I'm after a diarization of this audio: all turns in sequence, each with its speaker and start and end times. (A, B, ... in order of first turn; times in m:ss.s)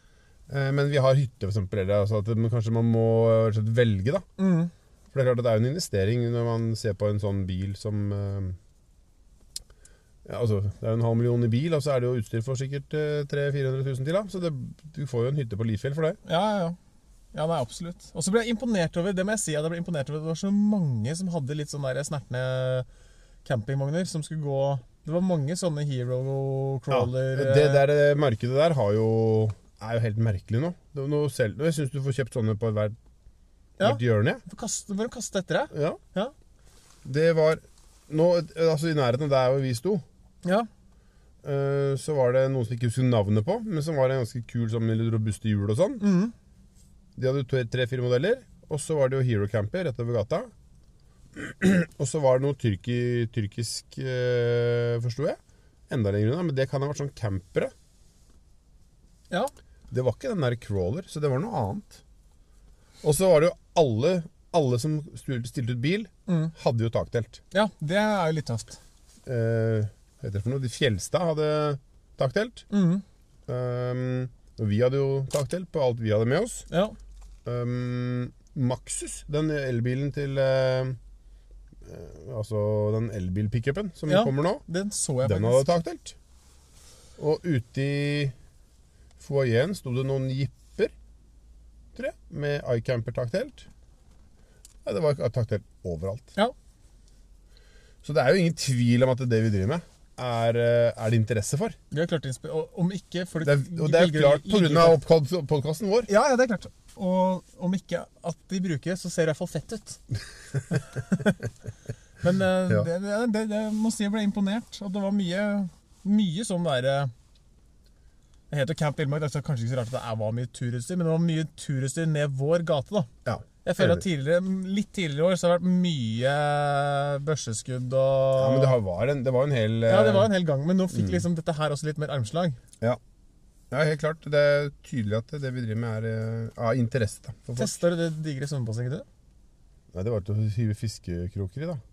0:00.5-0:04.2 A
0:04.4-0:04.7 B
0:05.1-0:08.6 A
0:10.2-0:16.2 A
0:16.2-0:16.8 B
0:17.3-0:22.9 B
0:23.4-0:27.9 B
0:26.9-0:33.0 A
0:33.8-0:36.3 B
0:33.8-0:34.4 A
0:35.7-0:36.0 A
0:37.0-0:40.0 A
0:41.4-0:46.0 A
0:46.0-0:46.3 B
0:47.2-0:50.5 A
0:51.4-0:55.4 A
0:55.9-0:57.7 A
0:59.9-1:02.0 A
1:03.0-1:07.4 A
1:06.3-1:06.5 B
1:07.5-1:08.8 B
1:09.3-1:12.7 A
1:12.7-1:13.0 B
1:13.5-1:16.7 A
1:16.7-1:17.0 B
1:17.5-1:21.0 A
1:21.8-1:24.6 A
1:24.1-1:25.7 B
1:25.2-1:26.2 A
1:27.2-1:28.3 A
1:29.2-1:30.9 A
1:32.0-1:33.7 A
1:34.8-1:36.3 A
1:38.0-1:41.8 A
1:41.9-1:45.0 B
1:43.4-1:46.1 A
1:46.1-1:50.0 B
1:50.7-1:51.4 B
1:52.2-1:57.1 B
1:58.5-2:03.1 B
2:03.2-2:04.0 A
2:03.6-2:08.8 B
2:08.4-2:10.3 A
2:09.9-2:12.6 B
2:10.9-2:11.2 A
2:13.7-2:17.8 A
2:17.6-2:19.1 B
2:19.9-2:21.8 A